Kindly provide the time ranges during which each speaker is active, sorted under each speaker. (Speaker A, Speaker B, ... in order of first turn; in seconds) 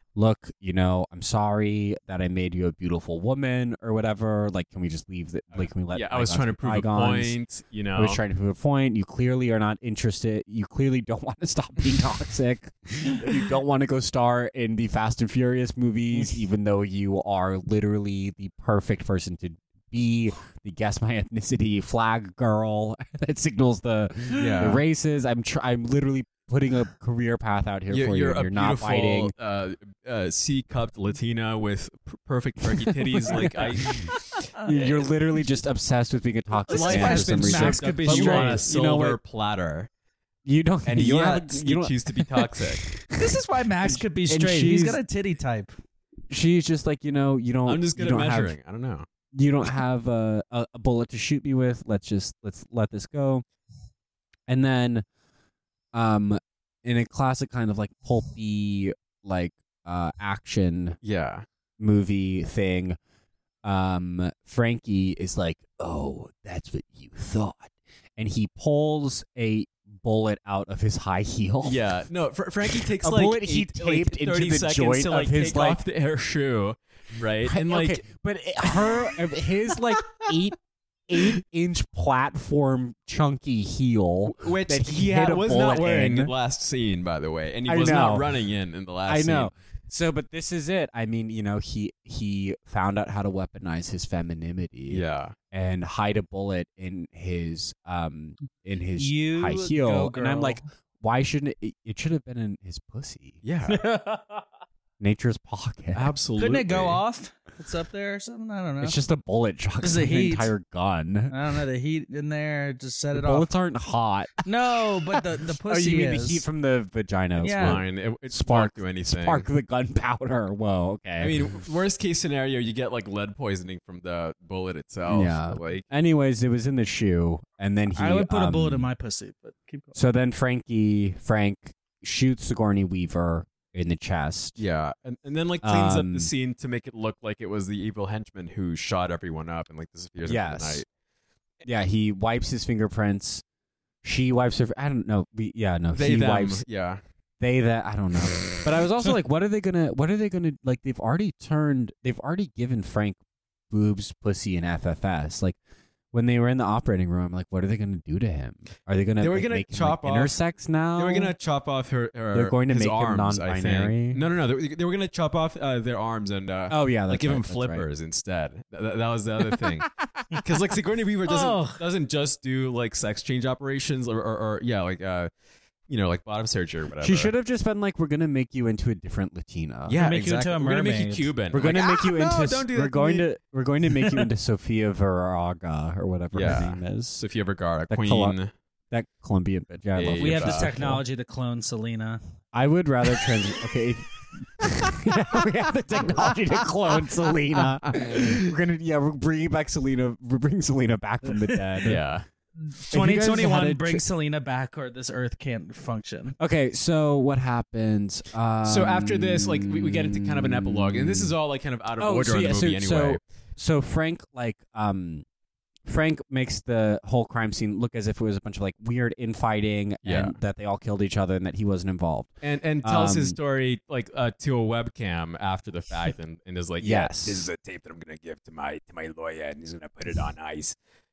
Speaker A: 0.1-7.4, 8.0-29.3, 32.7-39.2, 40.4-43.2, 43.9-45.0, 46.3-48.5, 49.3-53.4, 54.5-55.0, 55.9-61.0, 61.8-63.0, 63.6-71.8, 73.0-75.8, 77.4-80.5, 81.1-86.3, 87.7-88.4, 89.0-103.4, 105.0-106.1, 108.8-111.3, 113.1-121.4, 125.1-128.9, 129.9-134.6, 135.6-136.3, 140.2-140.8, 141.6-143.4, 144.0-146.6, 147.4-153.2, 153.7-155.6, 156.1-161.3, 162.3-164.2, 166.7-167.8, 177.0-180.0, 181.5-187.2, 187.9-188.4, 188.9-191.0, 192.5-202.0, 202.9-204.0, 206.4-211.3, 212.0-215.2, 215.8-223.4, 226.8-227.5
Speaker B: 5.5-8.2, 24.3-24.8, 27.9-34.2, 36.7-39.9, 40.9-42.9, 47.6-49.0, 61.0-61.5, 71.6-78.0, 80.0-80.3, 84.3-89.5, 94.9-95.3, 103.4-103.8, 105.9-107.0, 117.5-119.5, 121.2-125.8, 134.6-140.8, 145.9-147.0, 159.2-160.4, 160.9-175.3, 175.9-177.3, 179.9-183.3, 186.3-188.5, 189.9-190.7, 197.8-198.5, 201.8-202.2, 208.6-213.2, 220.0-220.3, 222.4-230.8
Speaker C: 36.7-38.7, 43.1-45.7, 99.0-100.6, 103.7-104.4, 106.4-108.9, 109.8-110.5, 111.3-113.5, 114.4-116.4, 117.4-117.8, 127.9-130.0, 171.2-171.8, 180.0-181.3, 183.9-184.2, 190.2-192.2, 202.6-206.3